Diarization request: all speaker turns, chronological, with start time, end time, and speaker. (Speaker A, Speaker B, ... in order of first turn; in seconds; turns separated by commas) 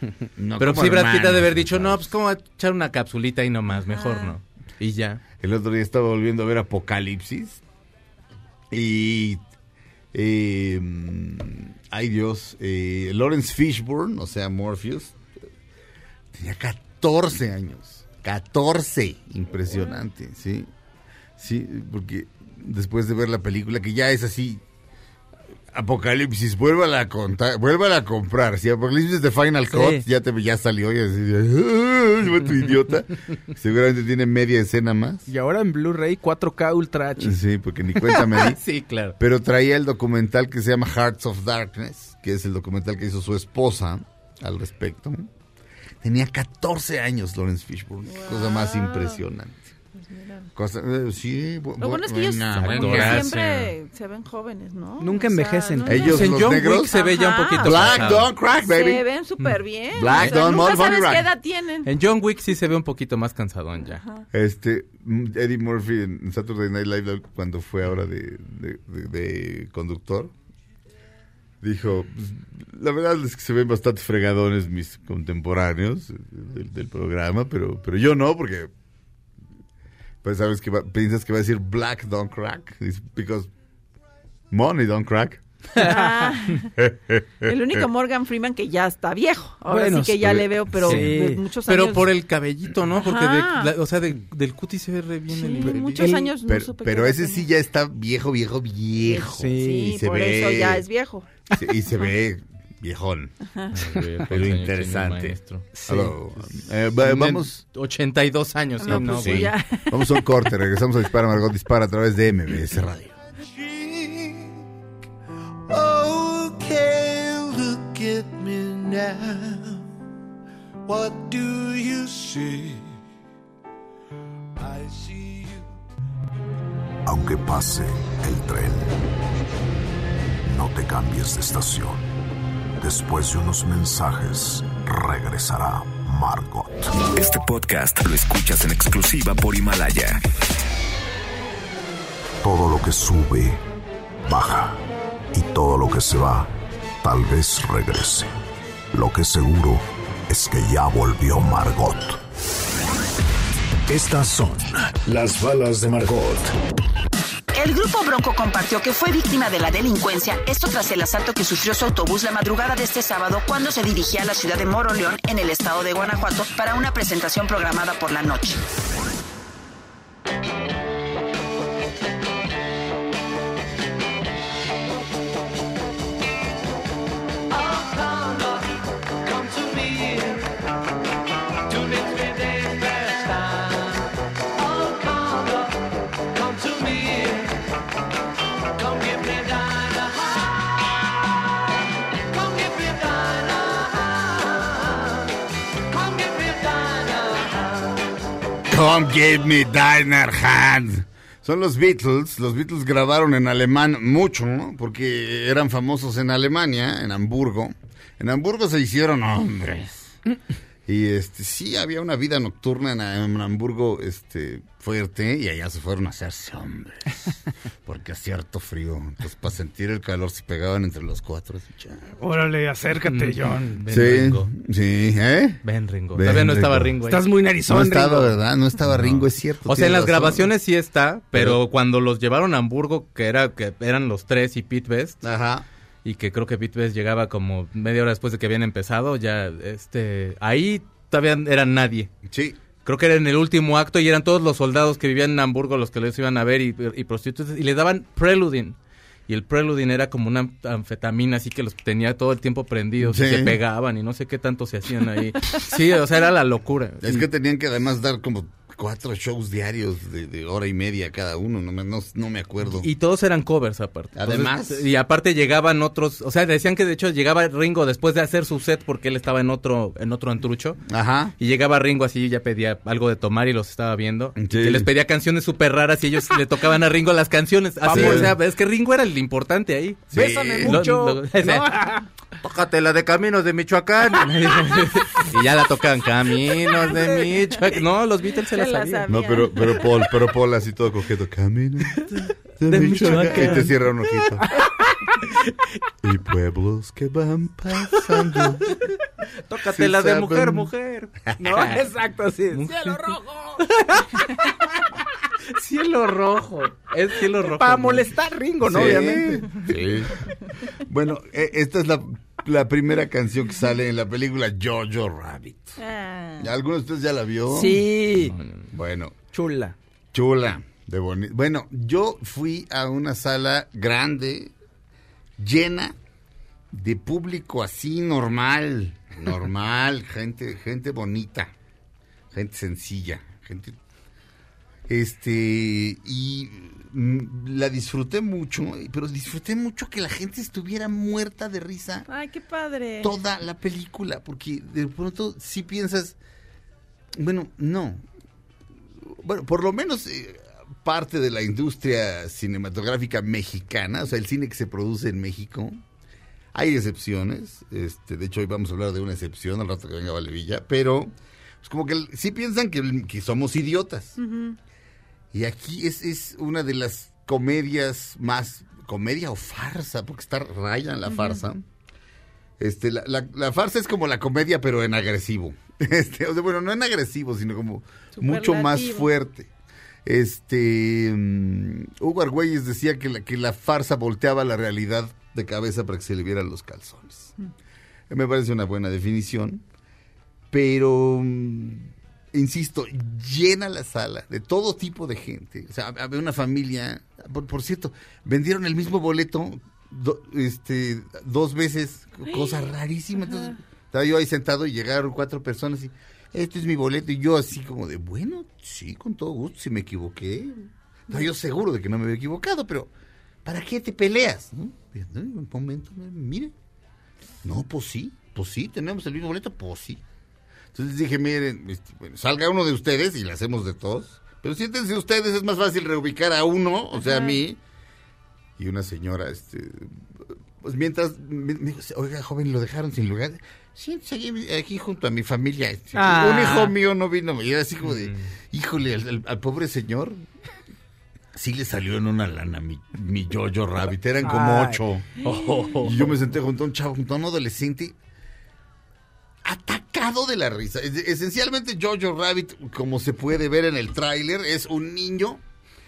Speaker A: 0.4-2.1, Speaker B: 0.6-5.2, Speaker C: 3.9-4.3, Speaker A: 5.4-7.6, Speaker A: 8.7-9.4, Speaker A: 10.1-15.2, Speaker A: 16.3-20.7, Speaker A: 21.4-24.6, Speaker A: 25.7-35.2, Speaker D: 29.7-30.0, Speaker D: 35.3-37.4, Speaker A: 37.2-38.6, Speaker B: 38.3-39.1, Speaker A: 39.2-45.3, Speaker A: 46.0-49.6, Speaker C: 48.1-49.2, Speaker C: 49.9-50.5, Speaker A: 50.5-53.3, Speaker C: 51.8-61.9, Speaker B: 52.6-53.7, Speaker D: 55.0-56.2, Speaker A: 55.9-56.9, Speaker B: 56.0-58.3, Speaker A: 57.6-59.0, Speaker A: 59.9-61.3, Speaker B: 60.1-60.4, Speaker B: 61.8-64.0, Speaker C: 63.9-64.2, Speaker A: 64.3-70.3, Speaker A: 71.6-78.7, Speaker A: 80.2-83.5, Speaker A: 84.5-85.4, Speaker C: 85.8-86.7, Speaker A: 86.8-87.8, Speaker C: 87.4-92.1, Speaker D: 89.7-91.4, Speaker A: 90.2-90.5, Speaker B: 90.8-91.1, Speaker B: 91.7-95.8, Speaker C: 92.9-93.7, Speaker C: 95.3-97.4, Speaker A: 95.6-100.8, Speaker D: 96.0-96.3, Speaker C: 99.0-101.4, Speaker D: 99.3-99.9, Speaker A: 101.5-103.3, Speaker B: 103.7-105.7, Speaker A: 104.3-105.4, Speaker D: 105.7-106.1, Speaker A: 105.9-107.6, Speaker B: 107.0-109.5, Speaker C: 108.8-110.3, Speaker D: 108.9-109.2, Speaker A: 108.9-113.2, Speaker E: 113.4-114.6, Speaker E: 115.7-119.8, Speaker E: 120.9-122.9, Speaker E: 124.6-125.7, Speaker F: 127.0-129.0, Speaker F: 130.4-132.1, Speaker F: 132.8-136.9, Speaker G: 137.1-140.2, Speaker F: 142.4-143.6, Speaker F: 144.2-148.3, Speaker F: 148.9-152.2, Speaker H: 153.9-156.5, Speaker I: 157.5-168.6, Speaker E: 177.5-178.7, Speaker E: 179.2-180.5, Speaker E: 181.7-184.0, Speaker E: 184.6-187.6, Speaker E: 188.8-190.8, Speaker E: 192.3-195.1, Speaker E: 195.9-197.9, Speaker A: 198.7-210.2, Speaker A: 210.9-217.3, Speaker A: 217.8-222.1, Speaker D: 222.2-223.8, Speaker B: 223.1-224.5, Speaker A: 223.9-225.6, Speaker B: 225.6-227.2, Speaker A: 226.1-226.9, Speaker D: 227.0-228.3, Speaker A: 227.7-230.5, Speaker B: 228.8-235.2, Speaker A: 231.3-231.6, Speaker A: 235.2-235.7, Speaker B: 236.0-242.1, Speaker A: 242.3-242.6, Speaker B: 242.8-248.8, Speaker B: 249.3-257.2, Speaker A: 253.0-253.6, Speaker A: 257.0-262.9, Speaker B: 262.6-270.8, Speaker A: 264.1-264.8, Speaker A: 270.9-271.3, Speaker B: 271.4-289.0, Speaker A: 274.4-274.9, Speaker A: 277.8-278.4, Speaker D: 277.9-278.2, Speaker A: 280.1-280.9, Speaker D: 280.1-282.0, Speaker C: 288.5-289.8, Speaker A: 289.1-292.1, Speaker A: 292.6-294.5, Speaker B: 292.7-295.3, Speaker D: 293.0-293.7, Speaker A: 296.0-298.8, Speaker B: 299.5-301.8, Speaker A: 299.7-300.7, Speaker D: 301.4-303.7, Speaker B: 302.5-303.2, Speaker B: 303.7-304.4, Speaker B: 305.5-308.1, Speaker D: 307.6-309.5, Speaker A: 308.6-315.8, Speaker C: 315.8-316.5, Speaker A: 316.4-317.9, Speaker D: 317.5-318.3, Speaker B: 318.2-318.6, Speaker A: 318.7-319.1, Speaker D: 319.3-319.8, Speaker A: 320.1-324.5, Speaker A: 325.4-325.9, Speaker A: 326.7-331.5, Speaker A: 332.3-333.8, Speaker A: 334.9-342.1, Speaker C: 342.1-343.1, Speaker A: 343.0-346.2, Speaker A: 347.1-348.0, Speaker A: 349.0-355.8, Speaker A: 356.5-364.2, Speaker C: 364.2-364.6, Speaker A: 365.3-371.6, Speaker C: 371.1-371.4, Speaker A: 372.6-379.5, Speaker C: 378.2-379.1, Speaker A: 380.0-387.3, Speaker A: 388.1-389.6, Speaker A: 390.5-412.9, Speaker C: 402.3-402.6, Speaker A: 413.4-416.5, Speaker A: 417.4-420.0, Speaker A: 420.7-427.6, Speaker C: 427.0-427.4, Speaker A: 428.6-440.2, Speaker D: 435.9-436.7, Speaker B: 437.8-438.2, Speaker A: 441.3-447.9, Speaker D: 444.2-444.8, Speaker B: 445.2-446.2, Speaker A: 449.4-455.4